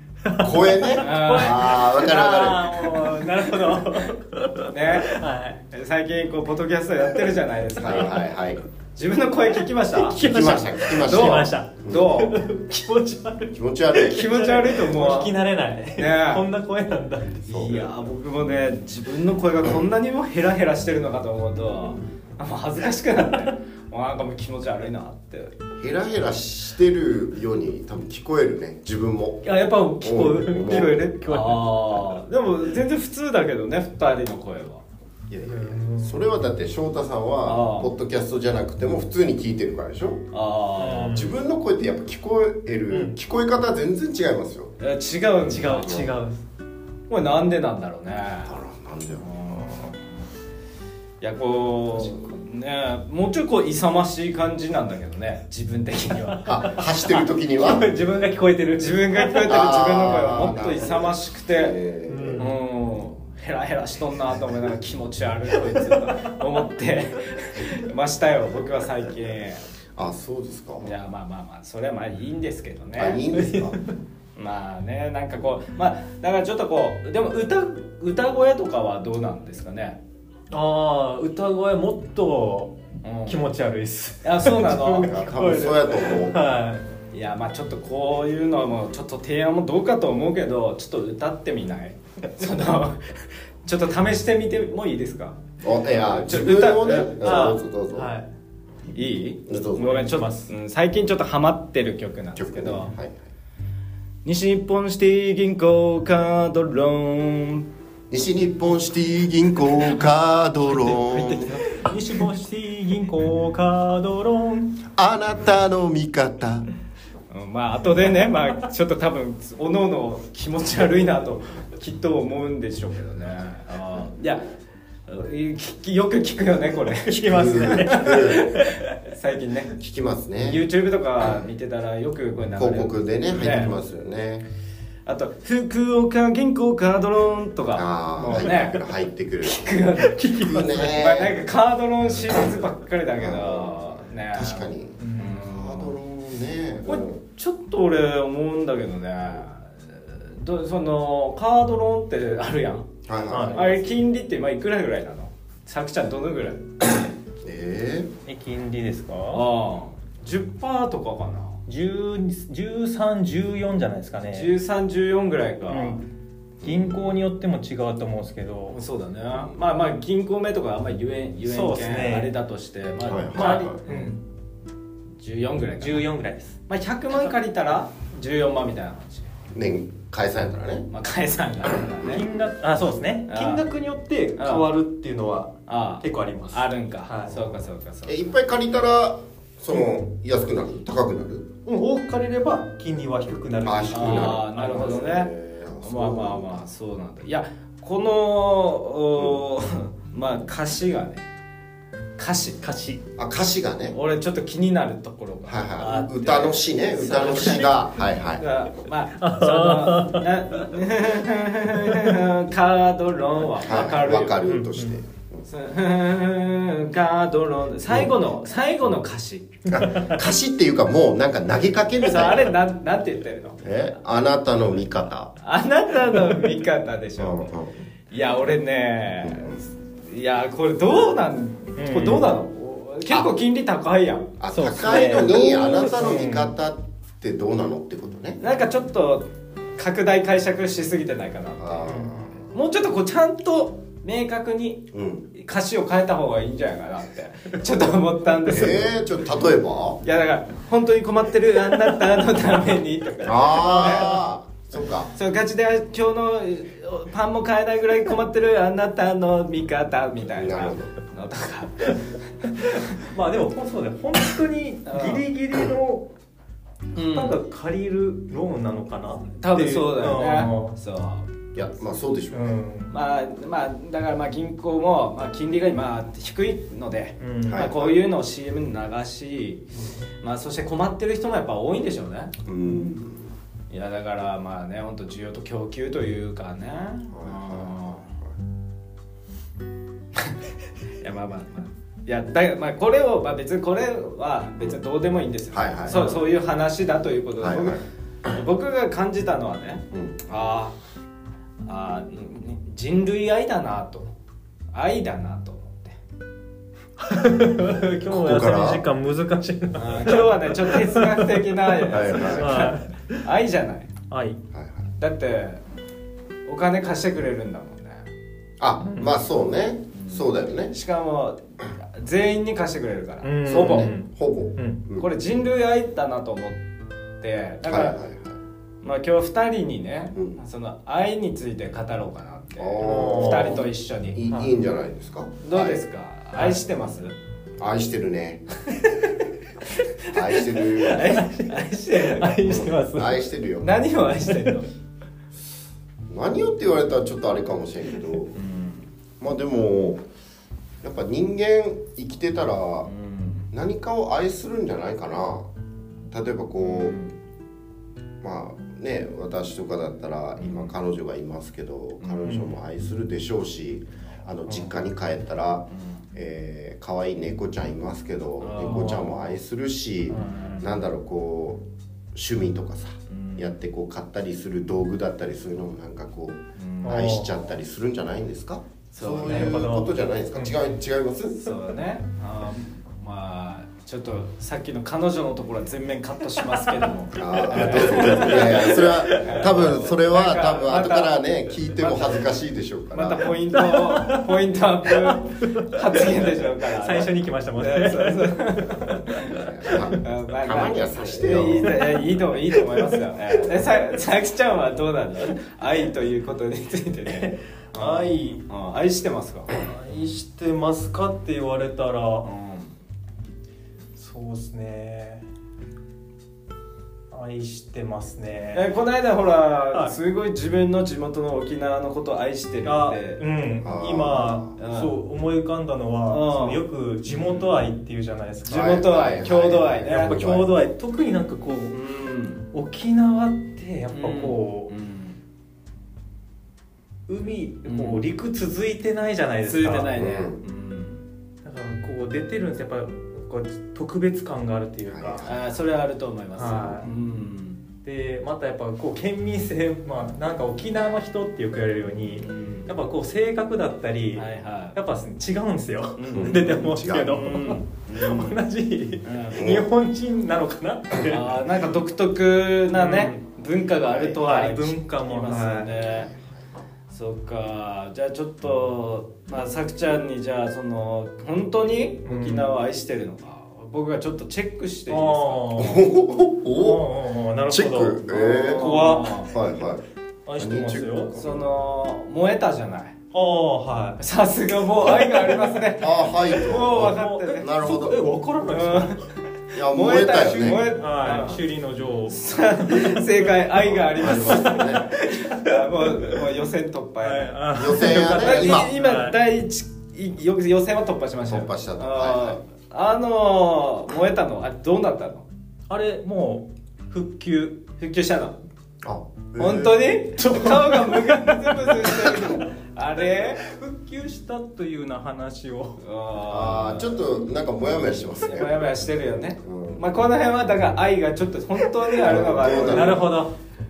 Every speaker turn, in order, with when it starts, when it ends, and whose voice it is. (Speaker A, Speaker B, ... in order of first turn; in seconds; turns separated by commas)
Speaker A: 0.2-5.6, Speaker B: 0.4-3.2, Speaker C: 1.0-1.8, Speaker C: 4.7-5.1, Speaker C: 5.7-8.2, Speaker B: 7.8-8.6, Speaker C: 9.0-10.2, Speaker A: 9.9-17.5, Speaker B: 10.2-12.1, Speaker C: 11.0-12.4, Speaker B: 13.5-14.3, Speaker C: 14.0-15.3, Speaker C: 16.0-16.4, Speaker C: 17.5-25.6, Speaker B: 17.5-17.8, Speaker B: 25.8-31.0, Speaker A: 29.4-32.0, Speaker C: 30.5-34.8, Speaker B: 35.3-40.2, Speaker A: 35.5-36.2, Speaker C: 37.5-37.9, Speaker C: 40.3-41.1, Speaker A: 40.8-41.3, Speaker B: 41.1-44.8, Speaker A: 42.9-43.2, Speaker C: 44.8-46.1, Speaker A: 45.5-46.4, Speaker B: 45.8-46.1, Speaker C: 47.1-48.6, Speaker B: 48.5-49.9, Speaker C: 49.2-50.0, Speaker C: 51.2-56.7, Speaker B: 56.5-57.9, Speaker A: 57.6-59.5, Speaker C: 58.8-61.8, Speaker B: 59.5-62.5, Speaker A: 62.1-62.5, Speaker C: 62.4-69.6, Speaker B: 70.0-70.9, Speaker C: 70.8-73.2, Speaker B: 73.0-73.8, Speaker A: 73.3-73.8, Speaker C: 74.4-80.0, Speaker A: 80.5-82.8, Speaker C: 83.0-83.4, Speaker A: 83.3-86.8, Speaker C: 84.2-85.2, Speaker B: 85.0-86.4, Speaker C: 87.1-95.4, Speaker B: 95.6-98.1, Speaker C: 96.0-97.5, Speaker A: 97.2-98.3, Speaker C: 98.9-102.9, Speaker B: 99.5-100.0, Speaker A: 99.8-100.5, Speaker B: 102.4-103.2, Speaker C: 104.2-107.7, Speaker B: 108.1-111.6, Speaker A: 110.8-114.8, Speaker B: 114.9-116.7, Speaker C: 117.3-124.5, Speaker C: 125.1-129.7, Speaker A: 127.1-128.9, Speaker B: 127.3-128.4, Speaker B: 129.8-130.6, Speaker C: 130.4-133.7, Speaker B: 132.6-134.4, Speaker C: 135.1-138.8, Speaker B: 137.8-141.4, Speaker C: 139.4-145.9, Speaker A: 140.0-140.9, Speaker B: 143.2-147.2, Speaker A: 145.0-145.4, Speaker C: 146.9-152.9, Speaker B: 153.1-153.9, Speaker A: 153.3-153.6, Speaker C: 153.4-156.7, Speaker B: 157.4-158.1, Speaker A: 158.2-159.4, Speaker C: 159.3-161.6, Speaker A: 161.7-164.5, Speaker C: 164.3-166.0, Speaker A: 165.7-166.0, Speaker B: 166.6-167.0, Speaker A: 166.6-168.8, Speaker C: 168.7-174.1, Speaker A: 171.4-172.3, Speaker B: 173.1-173.8, Speaker A: 173.3-174.2, Speaker C: 175.2-176.1, Speaker A: 175.8-176.6, Speaker C: 176.7-179.3, Speaker B: 179.5-180.9, Speaker C: 180.9-182.2, Speaker B: 181.6-182.2, Speaker A: 182.1-187.3, Speaker C: 183.3-183.6, Speaker C: 184.4-184.7, Speaker C: 185.7-188.2, Speaker B: 188.1-191.5, Speaker A: 191.7-195.0, Speaker B: 193.6-196.6, Speaker C: 193.9-195.3, Speaker C: 195.8-201.2, Speaker C: 202.2-202.6, Speaker A: 202.6-203.0, Speaker B: 203.2-204.0, Speaker C: 203.9-207.7, Speaker B: 205.4-208.4, Speaker A: 205.8-206.1, Speaker A: 207.0-207.7, Speaker C: 208.4-214.4, Speaker A: 209.2-210.7, Speaker A: 211.7-212.2, Speaker B: 213.6-215.5, Speaker A: 214.4-214.9, Speaker C: 215.5-219.6, Speaker B: 219.7-222.5, Speaker A: 219.9-220.1, Speaker C: 222.0-223.6, Speaker B: 223.6-225.3, Speaker C: 225.4-227.5, Speaker B: 227.2-227.7, Speaker C: 228.1-234.3, Speaker B: 229.2-229.6, Speaker A: 231.8-232.3, Speaker B: 234.4-238.4, Speaker A: 234.5-236.5, Speaker C: 234.8-235.7, Speaker C: 238.4-239.2, Speaker C: 239.8-248.9, Speaker B: 241.6-242.5, Speaker A: 241.8-242.1, Speaker B: 244.9-245.3, Speaker B: 248.5-250.0, Speaker C: 250.0-254.2, Speaker B: 253.2-255.1, Speaker C: 255.1-262.0, Speaker B: 260.3-260.9, Speaker A: 263.0-266.1, Speaker C: 264.9-265.2, Speaker C: 266.9-267.4, Speaker A: 267.0-270.8, Speaker C: 269.4-271.3, Speaker B: 271.5-272.6, Speaker A: 272.3-272.9, Speaker C: 272.9-279.6, Speaker A: 277.2-277.7, Speaker B: 277.4-277.9, Speaker C: 280.2-282.3, Speaker B: 282.4-283.3, Speaker C: 283.7-288.1, Speaker B: 287.1-288.3, Speaker C: 291.0-300.8, Speaker B: 295.5-296.1, Speaker B: 297.4-297.8, Speaker C: 301.6-304.1, Speaker C: 304.7-306.0, Speaker A: 307.0-313.2, Speaker B: 308.1-308.8, Speaker C: 309.8-313.9, Speaker B: 311.9-312.6, Speaker A: 314.1-314.4, Speaker B: 314.5-314.9, Speaker C: 315.0-315.6, Speaker C: 316.5-318.1, Speaker B: 318.6-320.7, Speaker A: 318.9-319.1, Speaker C: 319.9-323.9, Speaker A: 323.2-324.8, Speaker B: 323.4-325.1, Speaker C: 325.0-326.6, Speaker C: 327.2-328.0, Speaker B: 327.6-328.4, Speaker C: 328.8-334.2, Speaker B: 330.1-330.4, Speaker B: 332.6-335.8, Speaker A: 332.8-333.6, Speaker C: 335.4-337.1, Speaker B: 337.6-338.4, Speaker C: 338.7-339.1, Speaker C: 339.8-342.4, Speaker B: 340.1-341.2, Speaker A: 341.0-343.2, Speaker B: 342.4-343.8, Speaker C: 343.6-344.7, Speaker B: 346.1-348.3, Speaker C: 348.3-348.9, Speaker B: 349.2-350.0, Speaker B: 350.8-352.9, Speaker C: 352.9-353.5, Speaker B: 353.5-355.5, Speaker B: 356.1-357.0, Speaker C: 356.6-357.1, Speaker B: 358.2-371.6, Speaker C: 360.4-360.7, Speaker C: 362.0-362.4, Speaker A: 362.3-362.5, Speaker C: 368.4-369.2, Speaker A: 368.6-369.0, Speaker A: 370.1-370.6, Speaker B: 372.1-381.6, Speaker C: 373.1-373.5, Speaker C: 376.6-377.1, Speaker A: 376.8-377.4, Speaker C: 378.9-379.6, Speaker A: 379.1-380.5, Speaker C: 381.4-391.2, Speaker B: 387.1-393.3, Speaker A: 387.5-389.5, Speaker C: 391.8-392.3, Speaker C: 392.9-399.4, Speaker A: 393.5-394.3, Speaker A: 394.9-399.9, Speaker B: 399.3-401.7, Speaker C: 399.9-409.6, Speaker A: 401.6-401.9, Speaker A: 402.6-402.9, Speaker A: 407.1-408.4, Speaker A: 409.5-412.3, Speaker C: 412.2-412.7, Speaker A: 413.9-415.2, Speaker A: 417.1-418.7, Speaker C: 418.5-423.2, Speaker A: 422.6-428.8, Speaker B: 423.6-424.5, Speaker C: 424.6-424.9, Speaker C: 426.1-427.6, Speaker C: 428.4-430.3, Speaker B: 428.5-430.5, Speaker A: 429.9-431.8, Speaker C: 431.7-432.4, Speaker A: 432.5-434.7, Speaker C: 433.9-435.2, Speaker A: 437.1-439.9, Speaker C: 437.6-438.0, Speaker C: 439.4-441.0, Speaker B: 439.9-440.4, Speaker A: 441.4-445.2, Speaker B: 444.9-445.6, Speaker C: 445.2-447.6, Speaker A: 446.4-446.9, Speaker A: 447.8-461.4, Speaker C: 452.2-452.7, Speaker C: 454.1-454.8, Speaker C: 456.0-458.4, Speaker B: 456.1-457.2, Speaker C: 459.0-459.5, Speaker B: 459.3-459.7, Speaker C: 461.1-466.1, Speaker A: 462.7-463.2, Speaker A: 464.2-465.7, Speaker B: 465.8-466.4, Speaker C: 466.9-475.8, Speaker A: 472.1-472.5, Speaker A: 474.9-475.8, Speaker B: 475.6-476.9, Speaker A: 476.6-479.3, Speaker B: 477.5-479.8, Speaker C: 478.2-479.3, Speaker A: 480.2-481.1, Speaker B: 480.4-481.4, Speaker C: 481.1-483.0, Speaker A: 483.1-484.0, Speaker C: 484.0-487.5, Speaker B: 485.8-488.0, Speaker A: 486.7-489.0, Speaker C: 488.5-491.4, Speaker B: 489.6-490.7, Speaker A: 490.5-493.3, Speaker C: 492.1-497.4, Speaker B: 493.7-494.9, Speaker A: 494.2-496.2, Speaker A: 497.0-499.2, Speaker B: 497.5-498.7, Speaker C: 498.2-505.2, Speaker B: 501.2-502.4, Speaker A: 505.7-507.6, Speaker C: 507.8-508.4, Speaker B: 508.8-509.9, Speaker C: 509.4-513.4, Speaker A: 510.2-512.4, Speaker A: 513.4-515.8, Speaker C: 515.8-517.0, Speaker B: 516.3-518.6, Speaker C: 518.2-523.1, Speaker B: 519.4-519.8, Speaker B: 522.0-523.1, Speaker A: 522.2-523.3